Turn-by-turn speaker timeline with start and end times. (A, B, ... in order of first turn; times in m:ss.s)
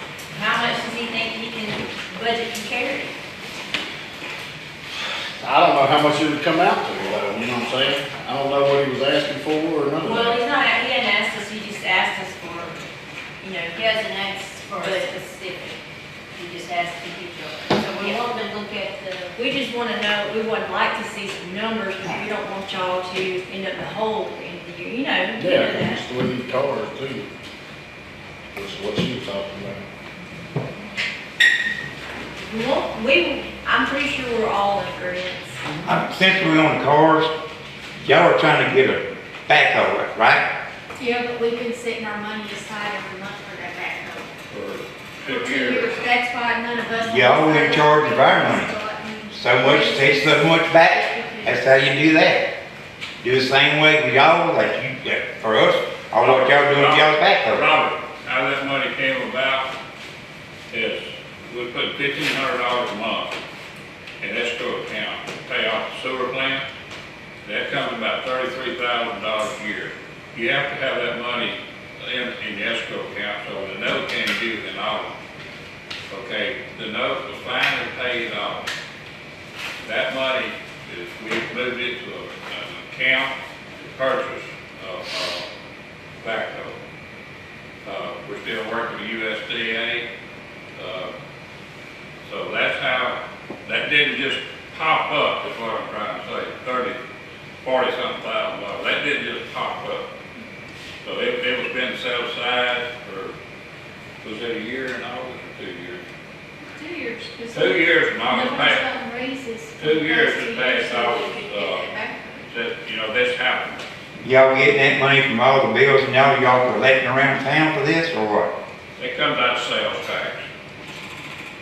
0:00.3-0:03.1 A
0:05.4-0:10.4 B
0:10.0-0:12.8 A
0:13.4-0:13.8 A
0:13.7-0:15.8 C
0:14.7-0:15.8 A
0:16.3-0:17.0 C
0:16.9-0:18.2 A
0:17.7-0:19.4 C
0:19.3-0:26.0 A
0:25.4-0:27.3 B
0:28.5-0:29.8 B
0:32.4-0:35.6 A
0:35.8-0:37.3 D
0:38.0-0:40.4 D
0:41.0-0:44.3 E
0:44.5-0:46.0 F
0:45.2-0:51.9 E
0:47.0-0:48.7 D
0:49.3-0:52.4 D
0:53.2-0:57.6 D
0:56.2-0:59.7 F
1:00.7-1:03.3 F
1:04.2-1:06.6 F
1:07.4-1:15.2 F
1:16.1-1:18.6 F
1:19.8-1:25.5 F
1:26.2-1:26.8 F
1:27.8-1:30.0 F
1:30.8-1:31.1 F
1:32.2-1:37.0 F
1:37.6-1:40.0 F
1:41.0-1:43.3 F
1:44.2-1:46.0 F
1:46.6-1:52.5 E
1:47.5-1:48.9 F
1:49.8-1:53.8 F
1:54.2-1:58.5 D
1:59.0-2:00.4 F